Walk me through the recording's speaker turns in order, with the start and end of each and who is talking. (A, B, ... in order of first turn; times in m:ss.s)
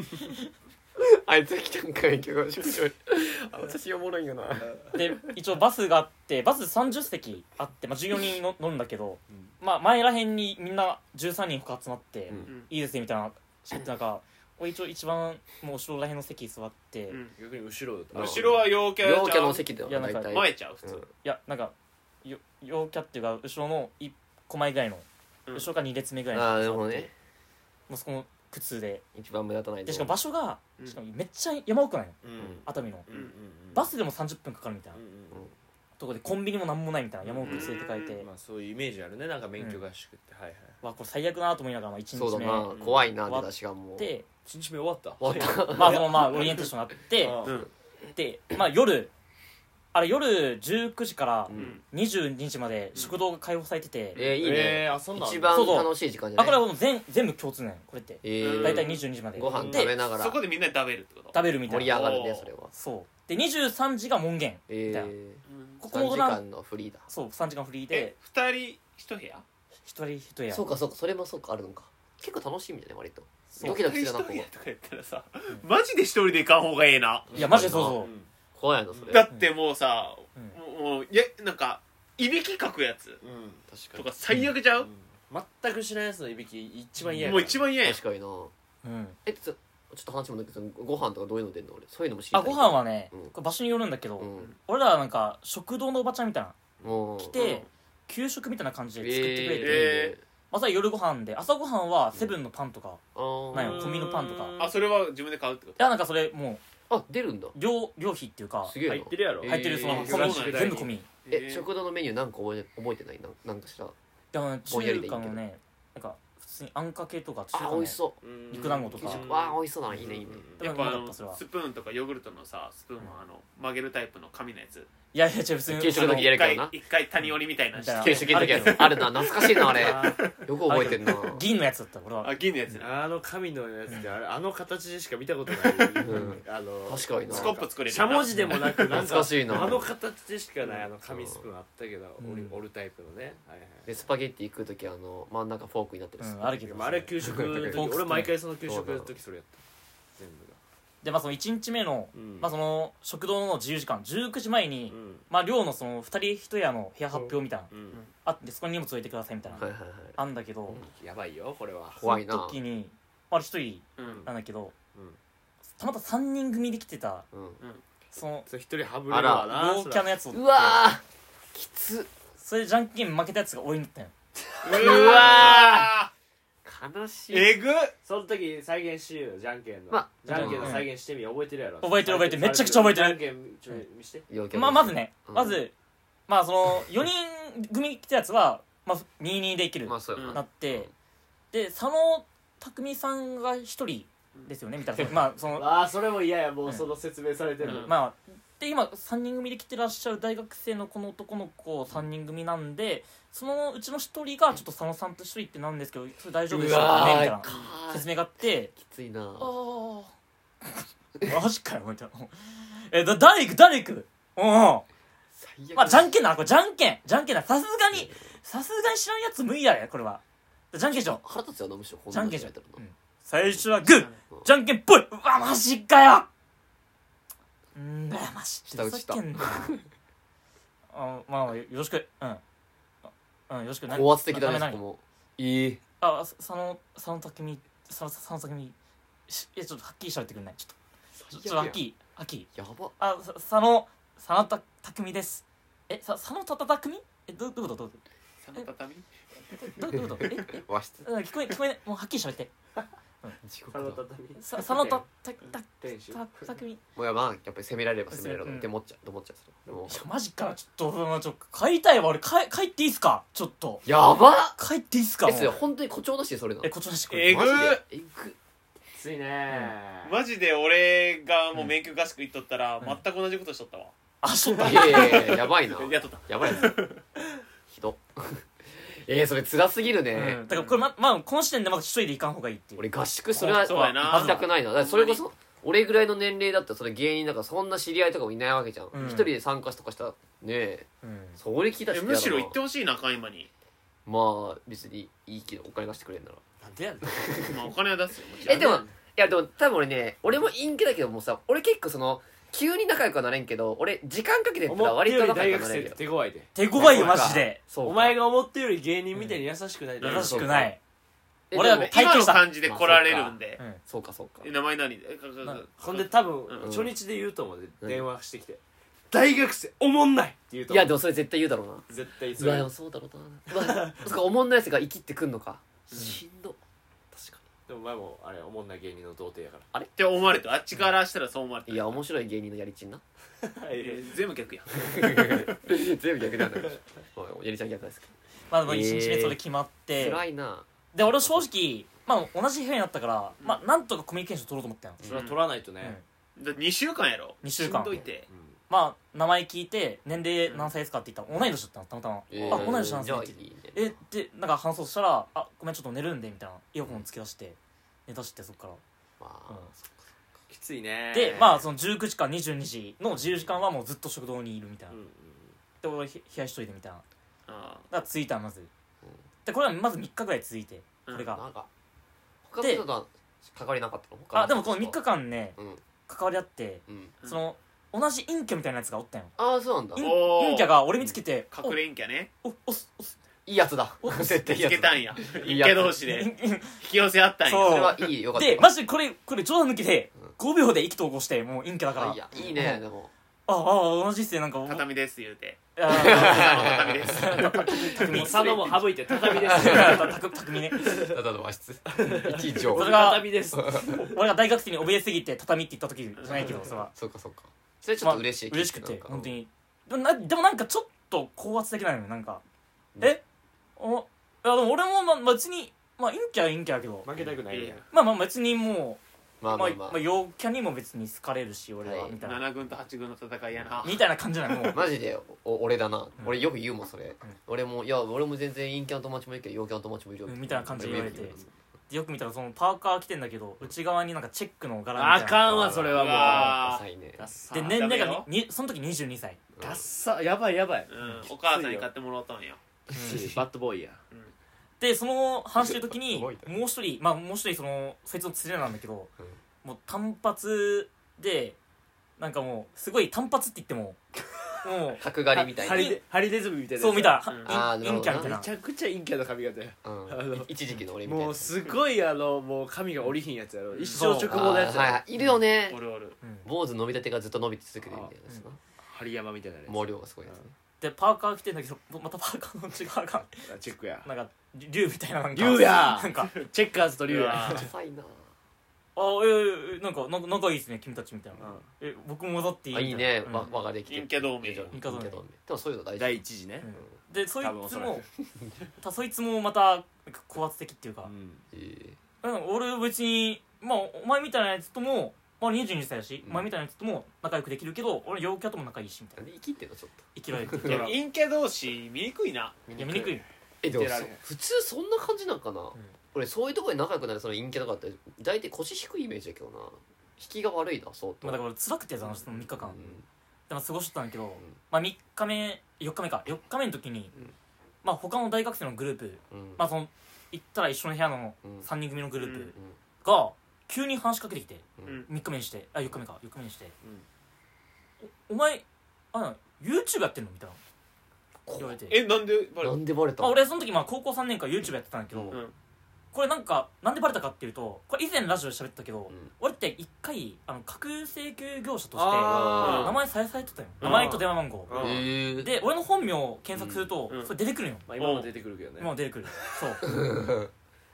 0:01.0-0:05.1 A
0:04.9-0:17.2 B
0:17.1-0:17.3 C
0:17.4-0:18.7 D
0:18.1-0:19.6 C
0:18.1-0:21.1 A
0:19.9-0:20.4 B
0:20.3-0:21.0 C
0:21.2-0:27.1 B
0:26.3-0:27.1 A
0:27.9-0:29.0 B
0:29.1-0:30.2 A
0:29.8-0:33.1 B
0:32.2-0:33.9 D
0:32.4-0:32.6 A
0:33.7-0:35.0 B
0:34.9-0:35.5 D
0:36.0-0:38.3 B
0:37.2-0:40.8 D
0:37.4-0:38.2 C
0:39.6-0:39.8 B
0:40.8-0:42.7 B
0:42.1-0:44.1 A
0:42.7-0:43.0 D
0:43.2-0:44.2 B
0:44.4-0:46.4 D
0:45.2-0:46.5 A
0:45.7-0:47.4 B
0:47.2-0:47.6 D
0:47.4-0:47.7 C
0:48.1-0:49.1 B
0:49.9-0:54.2 B
0:51.5-0:51.8 A
0:51.5-0:51.8 C
0:54.1-0:56.6 A
0:54.1-0:55.7 D
0:55.5-1:00.0 B
0:58.2-1:00.4 A
0:58.4-0:59.0 C
0:59.4-0:59.9 D
1:00.1-1:02.5 C
1:01.3-1:02.1 B
1:01.7-1:02.7 A
1:02.7-1:05.1 B
1:04.7-1:07.0 A
1:05.5-1:05.8 C
1:05.8-1:06.4 B
1:07.1-1:08.1 B
1:07.9-1:09.4 C
1:09.8-1:10.6 B
1:10.5-1:14.5 A
1:13.5-1:13.8 B
1:13.6-1:17.3 C
1:17.3-1:18.3 D
1:17.3-1:18.0 A
1:17.3-1:18.1 B
1:18.5-1:19.2 A
1:18.9-1:19.2 D
1:19.1-1:23.2 C
1:23.2-1:23.6 D
1:23.7-1:24.1 A
1:23.9-1:24.9 C
1:24.8-1:27.7 D
1:27.0-1:27.4 B
1:27.2-1:28.0 C
1:27.8-1:28.5 A
1:28.8-1:29.2 B
1:29.2-1:33.3 A
1:32.3-1:36.6 B
1:34.2-1:34.5 A
1:36.8-1:37.6 A
1:37.2-1:39.9 B
1:37.4-1:37.7 C
1:39.0-1:40.2 A
1:39.6-1:40.2 C
1:40.5-1:43.0 B
1:43.1-1:44.0 A
1:43.5-1:44.6 B
1:43.5-1:44.7 D
1:44.6-1:45.8 C
1:45.8-1:46.6 B
1:46.9-1:47.6 A
1:47.5-1:48.8 B
1:48.6-1:50.4 A
1:48.8-1:50.9 D
1:49.4-1:51.1 B
1:49.8-1:51.7 C
1:51.3-1:53.9 A
1:54.3-1:58.0 B
1:54.7-1:55.4 A
1:57.5-2:00.4 A
1:58.2-2:00.6 D
1:58.5-1:59.2 B
2:00.6-2:04.9 C
2:00.6-2:01.4 B
2:05.1-2:06.2 B
2:05.7-2:06.7 A
2:05.9-2:10.4 C
2:07.7-2:09.1 B
2:08.0-2:11.4 A
2:09.7-2:10.2 D
2:10.6-2:12.3 B
2:12.2-2:12.9 C
2:12.8-2:23.9 D
2:16.0-2:17.6 A
2:17.3-2:19.1 C
2:18.3-2:18.6 B
2:18.8-2:19.9 A
2:21.1-2:21.4 A
2:22.2-2:22.6 B
2:23.8-2:26.6 A
2:26.2-2:28.3 B
2:26.6-2:29.6 D
2:27.2-2:27.9 A
2:28.6-2:29.1 A
2:30.2-2:30.6 D
2:31.0-2:37.7 B
2:32.1-2:32.5 D
2:34.9-2:35.2 D
2:37.7-2:38.0 D
2:38.2-2:40.8 B
2:39.6-2:40.2 A
2:40.9-2:42.0 D
2:41.9-2:42.6 A
2:42.0-2:44.7 B
2:44.0-2:44.2 C
2:44.0-2:44.3 D
2:44.9-2:45.2 D
2:45.8-2:47.2 B
2:47.3-2:47.6 A
2:48.1-2:48.5 B
2:48.5-2:50.1 D
2:49.1-2:49.5 A
2:49.5-2:50.8 B
2:50.3-2:52.1 A
2:52.4-2:54.1 B
2:54.6-2:55.5 D
2:54.6-2:56.1 C
2:54.7-2:55.9 A
2:56.6-2:57.5 A
2:57.3-2:57.9 C
2:58.0-3:04.2 D
2:59.9-3:00.8 A
3:00.3-3:00.9 B
3:01.8-3:03.8 B
3:04.3-3:05.6 A
3:04.5-3:05.7 B
3:06.3-3:10.9 B
3:09.8-3:10.9 A
3:10.1-3:10.4 C
3:11.5-3:15.7 B
3:15.5-3:17.9 D
3:17.6-3:17.9 C
3:17.7-3:28.7 B
3:26.5-3:28.1 A
3:27.4-3:27.8 C
3:28.7-3:29.5 A
3:29.4-3:30.1 B
3:30.6-3:34.8 B
3:35.3-3:36.1 A
3:35.7-3:41.2 B
3:37.9-3:38.2 A
3:40.9-3:42.8 A
3:42.1-3:46.3 B
3:43.9-3:44.2 C
3:47.7-3:49.8 B
3:48.7-3:49.8 A
3:50.9-3:52.4 B
3:53.0-3:54.8 B
3:53.9-3:55.8 A
3:56.0-3:58.7 B
3:59.3-4:00.8 B
4:01.2-4:01.8 A
4:01.3-4:08.0 B
4:02.5-4:02.9 A
4:08.4-4:09.1 C
4:09.6-4:12.5 B
4:09.9-4:11.0 A
4:13.4-4:14.0 A
4:13.7-4:15.0 D
4:14.4-4:16.8 B
4:15.8-4:16.2 D
4:17.0-4:20.0 A
4:18.1-4:18.7 B
4:19.8-4:23.8 B
4:23.8-4:24.6 A
4:24.6-4:25.6 B
4:25.2-4:26.7 A
4:26.6-4:27.5 B
4:27.1-4:27.8 C
4:27.2-4:28.4 A
4:29.0-4:30.2 D
4:30.0-4:33.9 C
4:34.2-4:35.4 B
4:34.6-4:36.8 A
4:35.0-4:37.0 C
4:37.7-4:40.4 A
4:40.1-4:44.4 B
4:40.2-4:40.9 C
4:42.8-4:52.6 A
4:43.4-4:45.2 C
4:48.9-4:49.3 B
4:51.0-4:51.4 B
4:51.9-4:53.5 C
4:54.0-4:56.4 A
4:56.6-4:57.5 D
4:57.1-4:57.6 A
4:57.5-4:58.8 C
4:58.4-4:58.9 D
4:58.4-5:06.0 A
5:04.7-5:10.6 D
5:06.5-5:07.6 B
5:06.7-5:08.2 A
5:09.1-5:09.4 B
5:10.0-5:10.3 C
5:10.0-5:10.8 B
5:10.1-5:10.7 A
5:11.5-5:11.9 A
5:11.5-5:12.4 B
5:11.7-5:13.6 C
5:12.6-5:14.5 A
5:14.4-5:16.7 C
5:15.8-5:20.9 D
5:16.6-5:17.0 A
5:17.8-5:18.1 A
5:20.7-5:26.6 A
5:21.9-5:22.7 D
5:23.5-5:24.1 D
5:27.1-5:27.4 A
5:27.7-5:29.7 D
5:30.0-5:32.0 C
5:31.7-5:33.0 A
5:33.4-5:34.2 D
5:33.8-5:35.4 C
5:34.8-5:38.1 A
5:36.4-5:36.8 D
5:38.5-5:40.2 B
5:38.6-5:39.4 A
5:39.9-5:41.4 A
5:40.9-5:45.0 B
5:45.0-5:45.3 A
5:45.0-5:46.0 D
5:45.0-5:45.4 C
5:46.4-5:48.3 C
5:47.4-5:48.0 B
5:48.3-5:48.6 D
5:48.7-5:58.8 B
5:52.3-5:54.0 A
5:52.4-5:52.8 D
5:59.2-6:00.1 A
6:00.5-6:01.6 D
6:01.1-6:05.0 B
6:04.9-6:05.6 D
6:05.8-6:07.0 B
6:07.5-6:07.9 C
6:07.9-6:08.7 B
6:09.4-6:11.4 B
6:11.1-6:11.4 C
6:11.3-6:11.7 A
6:12.5-6:15.0 A
6:12.6-6:12.8 B
6:14.3-6:19.3 B
6:15.6-6:15.8 A
6:16.9-6:17.1 A
6:19.4-6:20.1 A
6:20.0-6:21.8 B
6:20.0-6:20.7 C
6:21.5-6:22.3 C
6:22.4-6:23.2 B
6:23.4-6:26.0 A
6:24.0-6:24.4 B
6:24.4-6:27.9 C
6:26.0-6:26.8 B
6:27.4-6:32.8 B
6:27.6-6:28.7 A
6:32.0-6:33.1 A
6:33.5-6:34.8 B
6:34.6-6:37.8 C
6:35.8-6:38.5 B
6:35.9-6:40.1 A
6:38.0-6:40.2 D
6:39.3-6:40.9 B
6:40.7-6:41.2 D
6:40.8-6:44.0 A
6:41.9-6:44.1 D
6:42.7-6:46.9 B
6:46.2-6:46.5 C
6:46.5-6:49.3 A
6:48.0-6:52.4 B
6:53.8-6:57.1 B
6:57.0-6:57.8 D
6:57.5-6:57.8 C
6:57.9-7:02.4 B
6:59.4-7:00.0 A
7:01.8-7:02.2 A
7:02.2-7:04.0 C
7:03.8-7:04.9 B
7:04.6-7:11.4 A
7:06.2-7:06.5 B
7:10.3-7:11.4 B
7:10.7-7:11.5 D
7:11.9-7:16.5 B
7:14.9-7:16.6 D
7:15.5-7:17.3 A
7:15.9-7:16.8 C
7:17.2-7:17.8 D
7:17.5-7:19.4 B
7:17.6-7:18.3 C
7:19.5-7:19.8 A
7:19.6-7:21.9 D
7:20.9-7:22.6 C
7:22.9-7:23.3 B
7:22.9-7:24.0 D
7:24.8-7:29.1 B
7:25.6-7:26.5 A
7:29.6-7:31.6 B
7:32.2-7:34.0 B
7:34.6-7:36.0 B
7:35.0-7:35.9 A
7:35.3-7:37.2 D
7:36.8-7:38.5 B
7:37.3-7:37.6 C
7:37.4-7:38.3 A
7:38.0-7:40.5 D
7:39.8-7:41.5 A
7:41.0-7:45.0 D
7:43.7-7:44.1 C
7:43.9-7:44.6 B
7:44.3-7:45.8 A
7:45.7-7:46.2 C
7:46.2-7:46.5 B
7:46.4-7:48.6 A
7:47.8-7:48.1 D
7:48.8-7:50.4 D
7:49.7-7:50.5 A
7:50.8-7:53.5 B
7:53.4-7:54.1 D
7:54.0-7:56.3 B
7:55.3-7:57.7 D
7:57.0-7:57.7 C
7:57.4-7:58.2 A
7:59.0-8:03.5 B
8:01.4-8:01.7 D
8:02.7-8:06.2 A
8:03.8-8:04.7 C
8:04.7-8:05.2 B
8:06.0-8:06.6 D
8:06.6-8:08.0 B
8:07.4-8:08.0 D
8:08.8-8:11.1 B
8:11.0-8:11.4 D
8:11.5-8:12.0 A
8:12.2-8:19.2 B
8:16.2-8:16.5 A
8:19.2-8:20.9 A
8:20.1-8:21.0 B
8:20.6-8:22.6 C
8:22.7-8:31.4 A
8:22.8-8:23.2 B
8:23.6-8:24.2 D
8:31.2-8:32.8 B
8:32.2-8:33.0 A
8:33.5-8:37.1 B
8:37.8-8:46.7 B
8:39.3-8:39.6 A
8:41.4-8:41.7 A
8:42.2-8:42.5 C
8:44.8-8:45.0 A
8:48.0-8:50.6 B
8:51.4-8:51.8 A
8:51.6-8:52.0 B
8:51.9-8:52.8 C
8:52.6-8:53.4 A
8:53.2-8:55.4 B
8:55.1-8:55.4 A
8:56.1-9:04.7 B
9:01.9-9:02.9 D
9:02.2-9:03.0 A
9:02.6-9:02.9 C
9:03.8-9:04.2 C
9:03.8-9:05.1 D
9:04.7-9:05.5 A
9:05.4-9:07.9 B
9:06.5-9:06.9 A
9:07.9-9:08.9 D
9:08.0-9:08.3 C
9:08.8-9:09.9 B
9:09.8-9:10.5 A